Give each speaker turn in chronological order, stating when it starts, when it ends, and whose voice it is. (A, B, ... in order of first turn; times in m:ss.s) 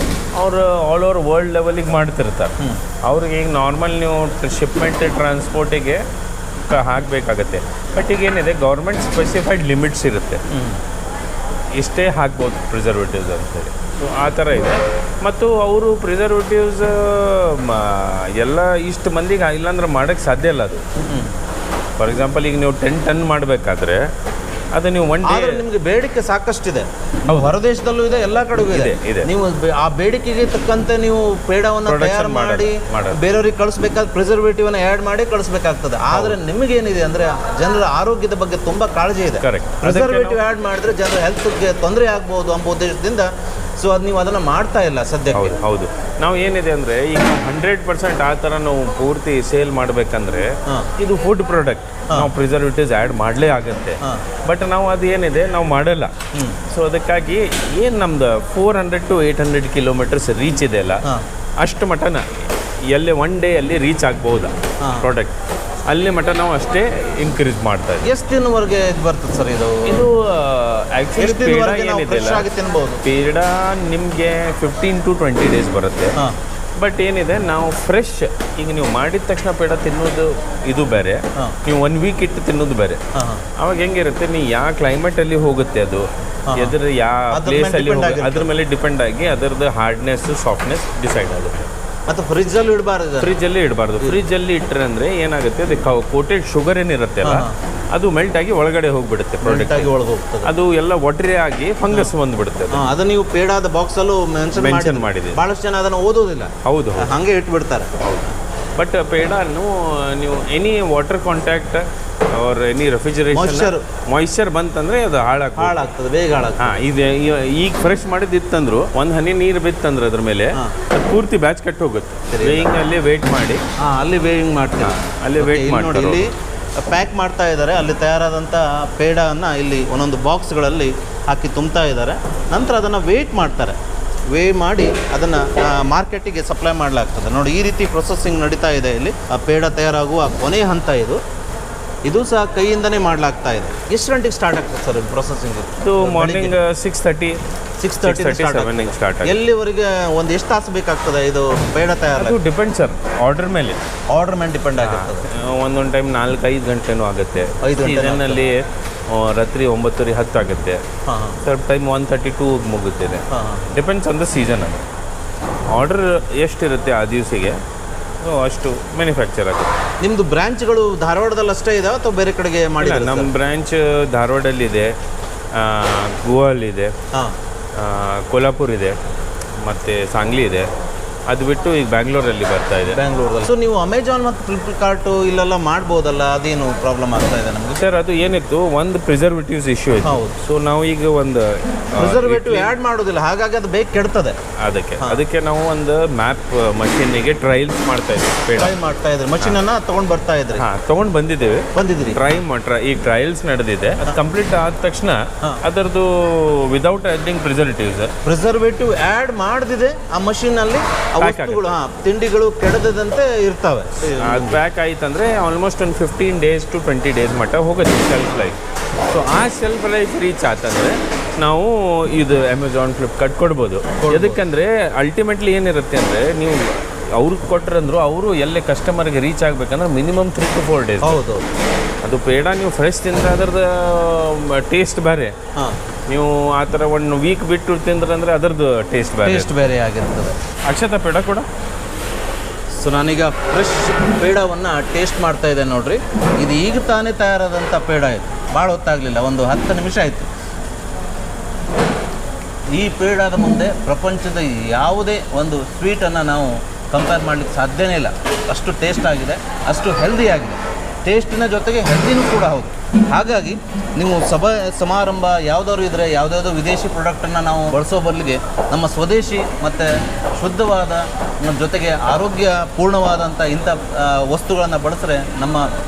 0:00.4-0:02.5 A
0:03.0-0:06.0 A
0:06.7-0:10.4 A
0:10.5-0:10.8 B
0:11.8-0:20.8 A
0:21.0-0:21.4 B
0:22.0-0:24.0 A
0:24.7-0:25.6 A
0:25.2-0:45.5 B
0:27.3-0:27.6 A
0:28.7-0:29.3 A
0:31.9-0:33.2 A
0:36.1-0:36.4 A
0:39.4-0:40.4 A
0:45.3-0:56.1 A
0:56.3-0:56.6 B
0:56.7-1:01.0 A
1:01.6-1:02.2 A
1:02.9-1:05.4 A
1:04.8-1:05.1 B
1:05.9-1:08.1 A
1:08.0-1:10.0 B
1:09.9-1:12.5 A
1:11.2-1:13.0 B
1:13.0-1:16.2 A
1:16.8-1:23.0 A
1:23.1-1:23.4 B
1:23.6-1:31.7 A
1:26.5-1:26.8 B
1:27.3-1:28.5 B
1:32.1-1:33.3 B
1:33.2-1:39.9 A
1:37.2-1:37.5 B
1:39.4-1:40.5 B
1:40.4-1:42.8 A
1:42.7-1:47.9 B
1:44.6-1:45.4 A
1:46.6-1:47.1 A
1:48.0-1:55.9 A
1:53.3-1:53.9 B
1:55.6-1:56.8 B
1:56.6-2:03.6 A
2:02.3-2:02.8 B
2:03.8-2:13.8 B
2:04.8-2:06.3 A
2:14.3-2:21.2 B
2:22.0-2:26.5 B
2:25.8-2:27.4 A
2:27.8-2:32.4 B
2:28.0-2:29.4 A
2:32.2-2:33.8 A
2:34.1-2:35.2 B
2:34.8-2:40.8 A
2:37.6-2:38.4 B
2:41.0-2:41.4 B
2:41.4-2:44.8 A
2:43.3-2:43.7 B
2:45.7-2:47.6 A
2:48.2-2:49.7 A
2:50.0-2:53.3 B
2:52.8-2:54.9 A
2:55.5-2:56.9 A
2:57.8-2:59.0 A
2:59.6-3:00.7 A
3:01.3-3:03.0 A
3:02.9-3:07.8 B
3:07.8-3:12.7 A
3:10.0-3:10.4 B
3:12.0-3:14.4 B
3:14.6-3:18.8 A
3:18.6-3:20.6 B
3:20.6-3:28.1 A
3:21.7-3:22.2 B
3:28.2-3:34.6 B
3:31.2-3:31.8 A
3:34.2-3:38.6 A
3:39.1-3:51.2 A
3:44.0-3:44.4 B
3:51.0-3:51.4 B
3:52.0-3:55.4 A
3:56.1-3:59.5 A
3:59.2-4:00.4 B
4:00.7-4:01.5 A
4:02.8-4:10.3 B
4:12.7-4:35.6 B